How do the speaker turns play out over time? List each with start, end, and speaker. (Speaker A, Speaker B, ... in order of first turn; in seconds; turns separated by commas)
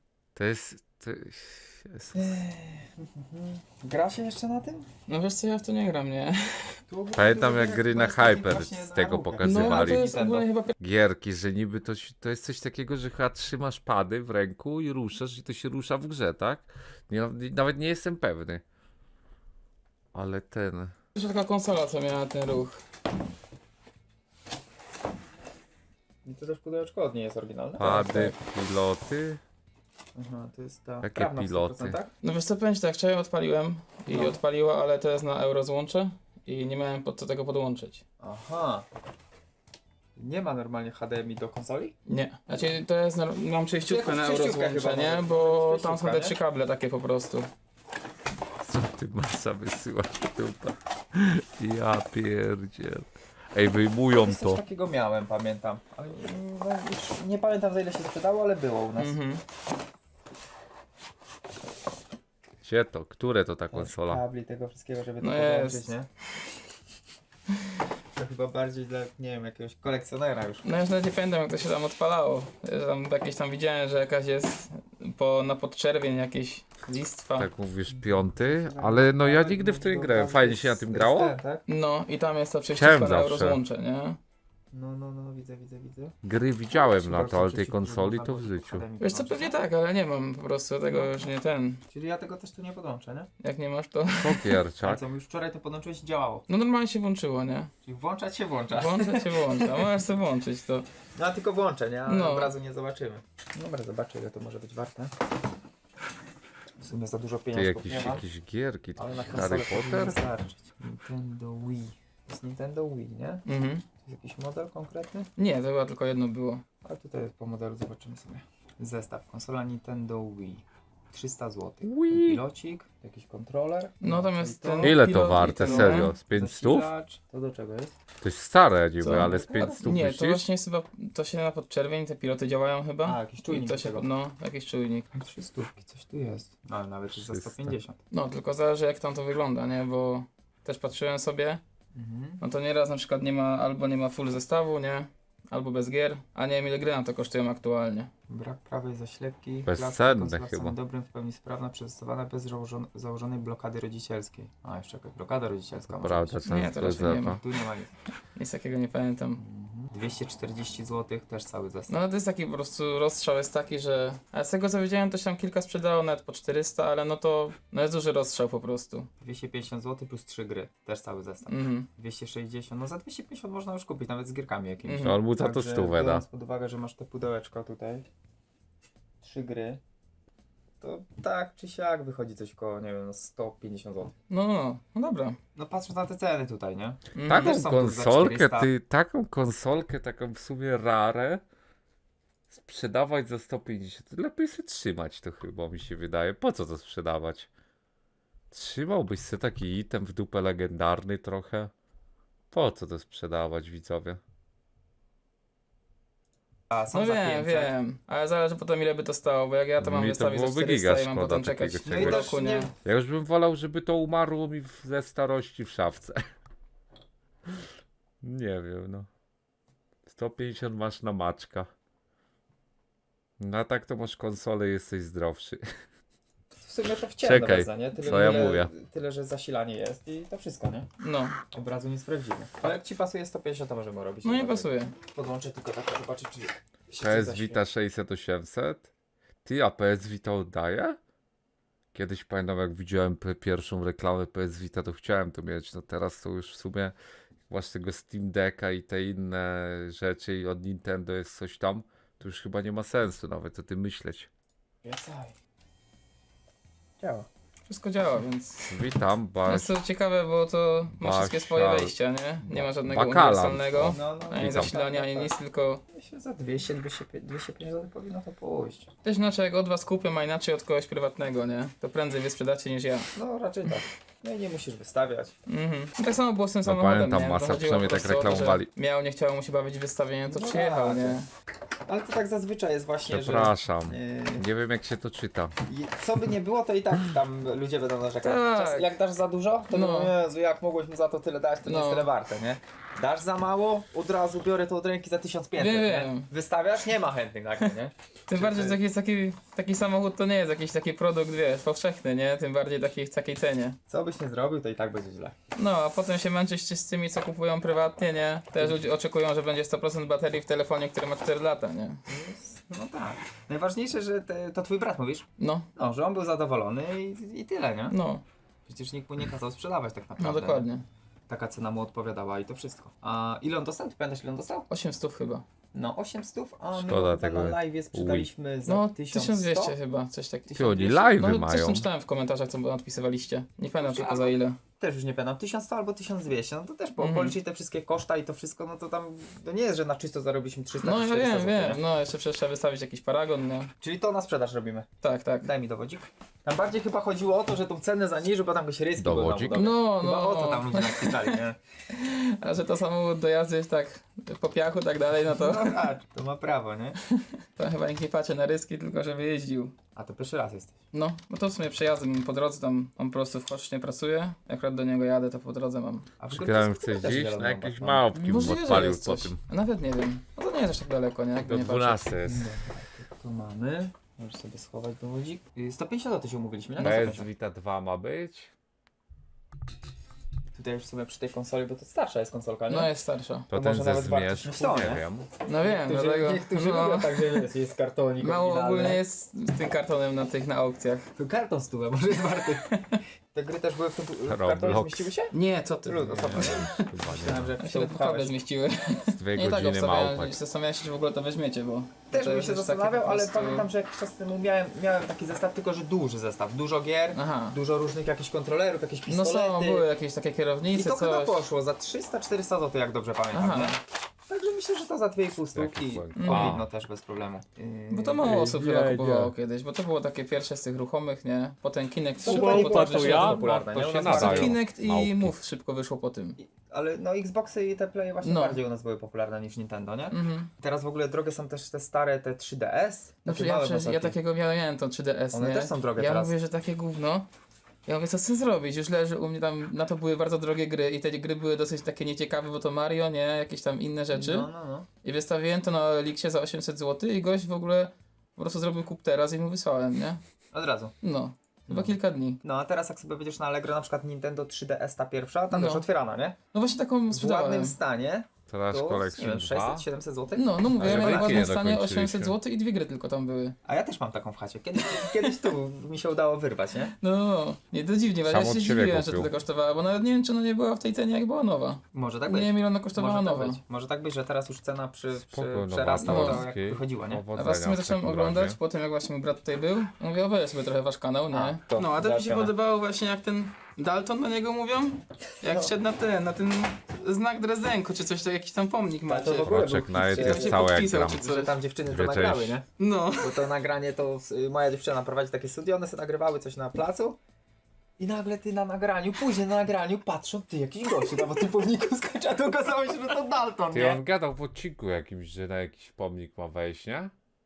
Speaker A: 0.3-2.4, Speaker B: 2.1-4.9, Speaker C: 5.1-6.8, Speaker B: 6.9-10.5, Speaker A: 7.2-10.1, Speaker C: 9.4-10.8, Speaker A: 10.8-18.6, Speaker A: 20.1-20.9, Speaker C: 21.1-22.8, Speaker B: 26.2-28.4, Speaker A: 27.8-29.4, Speaker B: 30.1-32.1, Speaker A: 31.0-32.0, Speaker C: 32.2-38.0, Speaker B: 38.2-38.9, Speaker B: 40.2-42.0, Speaker C: 42.1-47.5, Speaker B: 43.8-46.4, Speaker A: 48.6-54.6, Speaker B: 54.1-59.1, Speaker C: 59.0-59.4, Speaker A: 62.6-64.2, Speaker B: 63.7-66.1, Speaker C: 65.2-65.9, Speaker B: 68.2-70.7, Speaker C: 70.6-77.5, Speaker A: 77.4-81.4, Speaker B: 77.9-81.6, Speaker C: 81.7-84.2, Speaker A: 82.7-83.6, Speaker B: 84.7-86.2, Speaker A: 86.2-88.9, Speaker B: 86.7-89.5, Speaker C: 89.0-91.8, Speaker B: 91.9-93.3, Speaker C: 93.4-94.5, Speaker A: 94.1-95.0, Speaker B: 94.8-96.5, Speaker C: 96.5-97.7, Speaker B: 97.8-99.8, Speaker C: 98.7-100.9, Speaker B: 101.2-105.1, Speaker C: 102.1-102.5, Speaker B: 106.8-108.2, Speaker A: 107.5-110.2, Speaker B: 109.0-113.5, Speaker C: 113.5-113.8, Speaker B: 114.0-115.3, Speaker C: 115.4-116.6, Speaker B: 116.8-127.9, Speaker A: 121.8-122.4, Speaker C: 124.0-126.2, Speaker A: 124.8-126.9, Speaker A: 128.2-130.4, Speaker C: 129.0-135.1, Speaker B: 129.0-129.8, Speaker B: 133.0-134.1, Speaker B: 135.1-138.0, Speaker A: 137.1-137.8, Speaker C: 138.1-141.6, Speaker B: 141.9-142.4, Speaker C: 142.4-148.1, Speaker B: 148.3-156.4, Speaker A: 149.7-150.8, Speaker A: 155.9-157.4, Speaker C: 156.4-157.4, Speaker B: 157.0-157.9, Speaker C: 158.3-159.4, Speaker B: 159.4-161.9, Speaker C: 161.9-169.1, Speaker B: 169.2-178.1, Speaker C: 171.5-171.9, Speaker C: 174.9-175.2, Speaker A: 175.0-176.2, Speaker B: 179.2-179.8, Speaker B: 180.8-184.2, Speaker C: 184.3-185.4, Speaker B: 185.6-188.7, Speaker C: 187.2-187.7, Speaker A: 187.2-191.4, Speaker A: 192.5-197.5, Speaker A: 198.5-201.7, Speaker A: 202.5-204.2, Speaker B: 206.7-207.8, Speaker C: 206.9-212.7, Speaker A: 209.8-212.3, Speaker B: 211.8-212.7, Speaker A: 212.8-216.2, Speaker A: 218.2-219.1, Speaker A: 220.1-221.7, Speaker A: 223.4-225.7, Speaker B: 226.6-230.9, Speaker A: 227.2-228.7, Speaker C: 228.1-228.6, Speaker C: 231.0-231.4, Speaker B: 231.5-237.6, Speaker C: 234.2-234.9, Speaker A: 237.0-238.9, Speaker A: 239.4-241.0, Speaker A: 241.9-246.9, Speaker A: 247.5-254.3, Speaker B: 254.8-255.3, Speaker B: 257.0-257.3, Speaker C: 257.7-258.8, Speaker A: 258.7-259.8, Speaker C: 259.5-265.8, Speaker A: 260.9-261.9, Speaker A: 262.5-264.7, Speaker B: 263.8-265.3, Speaker B: 265.9-268.9, Speaker C: 269.0-273.1, Speaker B: 273.1-275.4, Speaker C: 275.5-281.3, Speaker A: 276.6-278.7, Speaker B: 280.3-281.2, Speaker B: 281.9-284.5, Speaker A: 283.1-285.5, Speaker B: 285.7-298.8, Speaker C: 288.2-288.9, Speaker C: 289.7-290.1, Speaker C: 291.7-292.1, Speaker C: 295.6-296.3, Speaker C: 298.3-303.8, Speaker B: 303.9-305.4, Speaker C: 305.6-312.0, Speaker B: 312.1-318.0, Speaker C: 315.4-315.7, Speaker C: 317.9-318.2, Speaker B: 318.7-320.7, Speaker C: 320.2-320.9, Speaker B: 321.3-324.7, Speaker C: 324.7-325.4, Speaker B: 325.7-329.8, Speaker A: 326.7-328.3, Speaker C: 328.7-334.6, Speaker A: 330.6-331.9, Speaker B: 333.8-341.8, Speaker C: 337.0-337.4, Speaker C: 340.8-343.7, Speaker B: 343.8-344.9, Speaker C: 345.0-345.5, Speaker B: 345.4-351.6, Speaker A: 349.0-349.6, Speaker C: 349.5-355.8, Speaker B: 355.3-357.0, Speaker C: 357.1-359.7, Speaker B: 359.9-360.8, Speaker C: 360.9-366.1, Speaker B: 366.2-368.7, Speaker A: 366.3-369.4, Speaker C: 368.1-372.2, Speaker A: 371.4-372.5, Speaker B: 372.3-377.3, Speaker A: 376.8-378.5, Speaker B: 380.5-382.9, Speaker C: 382.7-383.5, Speaker B: 383.5-385.1, Speaker A: 383.5-385.3, Speaker C: 385.4-387.5, Speaker B: 385.6-389.0, Speaker C: 388.2-391.1, Speaker B: 391.2-392.8, Speaker B: 393.3-398.4, Speaker A: 394.2-395.1, Speaker C: 395.3-396.6, Speaker A: 396.1-397.6, Speaker C: 397.6-403.7, Speaker A: 399.1-400.4, Speaker B: 402.1-409.9, Speaker C: 407.1-407.6, Speaker C: 409.1-411.4, Speaker B: 410.7-418.3, Speaker C: 413.3-413.8, Speaker A: 415.5-416.7, Speaker C: 416.2-416.6, Speaker C: 417.9-426.4, Speaker A: 418.2-419.4, Speaker B: 422.2-424.6, Speaker A: 422.2-425.3, Speaker B: 426.4-434.2, Speaker C: 428.2-428.6, Speaker C: 430.1-430.5, Speaker C: 433.2-437.3, Speaker B: 435.3-436.3, Speaker C: 437.9-444.5, Speaker B: 444.1-444.9, Speaker C: 445.0-450.2, Speaker B: 450.5-451.0, Speaker C: 451.0-452.4, Speaker B: 451.7-456.4, Speaker C: 455.5-455.9, Speaker C: 456.5-457.8, Speaker B: 457.1-461.4, Speaker A: 458.5-459.9, Speaker C: 460.3-463.6, Speaker A: 460.8-462.4, Speaker B: 463.6-466.9, Speaker C: 467.0-473.6, Speaker A: 468.2-469.3, Speaker B: 471.9-477.3, Speaker A: 475.1-478.6, Speaker C: 476.0-476.5, Speaker C: 477.4-491.6, Speaker B: 481.3-482.5, Speaker B: 489.1-492.6, Speaker A: 489.5-491.2, Speaker A: 491.8-492.6, Speaker C: 492.8-493.4, Speaker B: 493.2-497.2, Speaker B: 498.0-504.0, Speaker A: 503.7-507.1